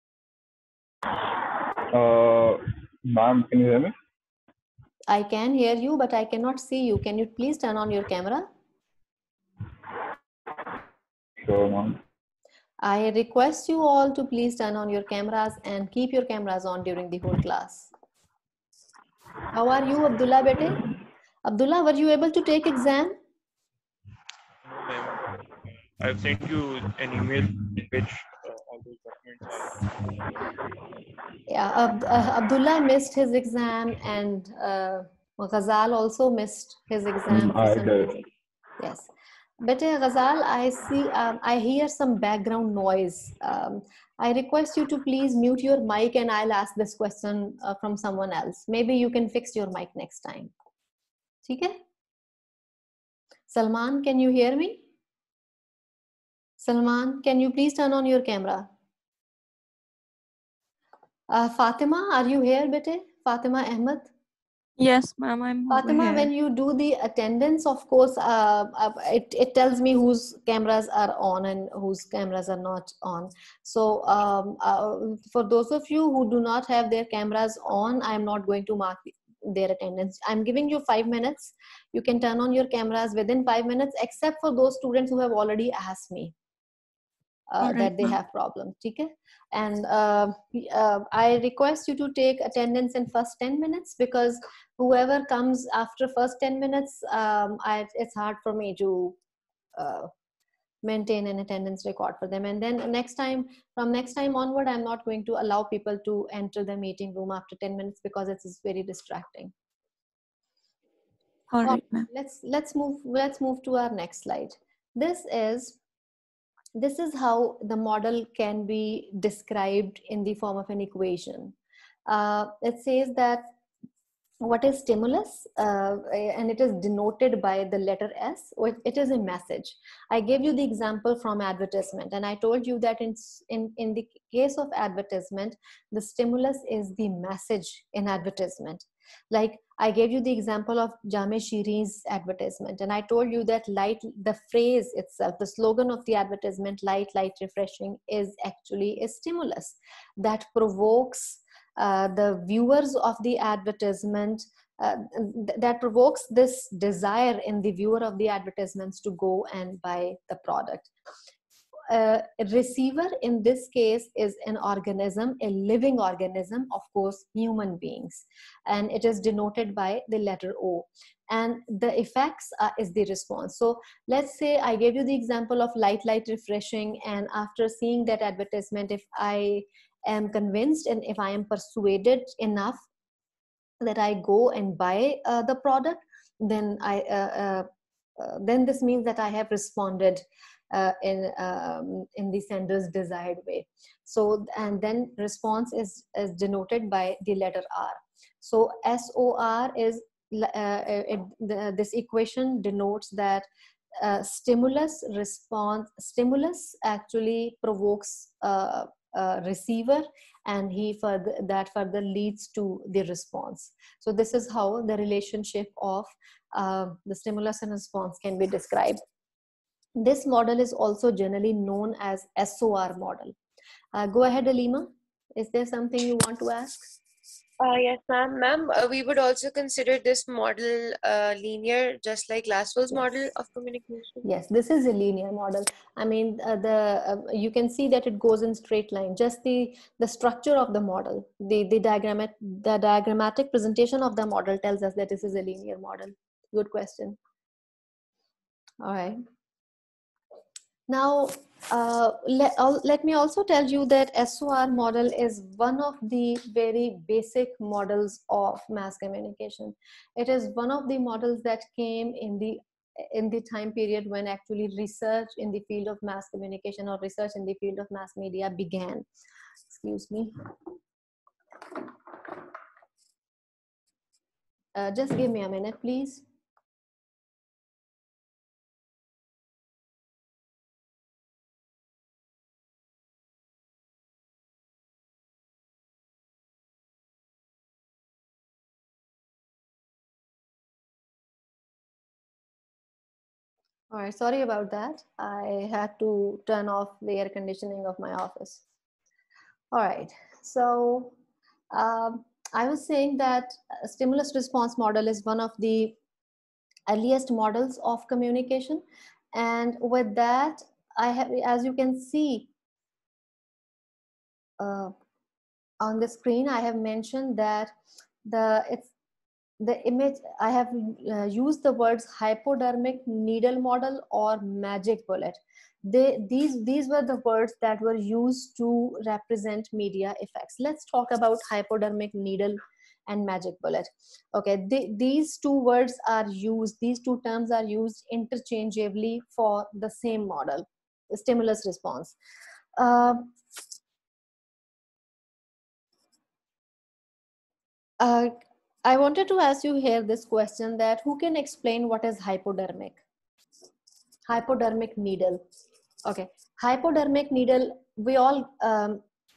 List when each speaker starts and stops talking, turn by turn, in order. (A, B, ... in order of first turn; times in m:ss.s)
0:01.9-0:03.9 A
0:05.1-0:08.5 B
0:11.4-0:12.0 A
0:12.8-0:17.9 B
0:19.5-0:20.8 B
0:21.4-0:23.2 B
0:24.6-0:25.4 C
0:26.0-0:29.9 C
0:31.5-0:38.2 B
0:37.3-0:38.1 A
0:38.8-0:39.1 B
0:39.6-0:50.5 B
0:51.4-0:51.8 B
0:53.5-0:54.8 B
0:56.6-0:58.7 B
1:01.3-1:04.1 B
1:04.8-1:06.3 D
1:05.7-1:26.3 B
1:27.5-1:39.2 B
1:27.6-1:28.2 D
1:39.8-1:40.1 B
1:40.8-1:49.5 B
1:51.5-1:52.1 D
1:51.6-1:55.8 B
1:56.8-2:01.5 B
2:02.1-2:03.5 B
2:04.4-2:40.9 B
2:41.9-3:02.8 B
3:03.8-3:07.7 B
3:08.2-3:39.0 B
3:40.0-3:43.3 B
3:43.9-3:47.0 B
3:47.6-3:54.2 E
3:54.2-4:07.2 B
4:08.8-4:09.2 B
4:10.9-4:29.0 B
4:29.7-4:30.3 B
4:34.7-4:36.2 B
4:53.9-4:58.6 B
4:59.7-5:01.1 B
5:01.7-5:06.0 B
5:06.9-5:12.5 B
5:14.6-5:14.9 B
5:15.8-5:17.7 B
5:18.2-5:18.9 B
5:19.6-5:42.2 B
5:42.8-5:43.3 B
5:48.0-5:53.0 B
5:54.3-5:55.4 B
5:56.1-5:59.0 B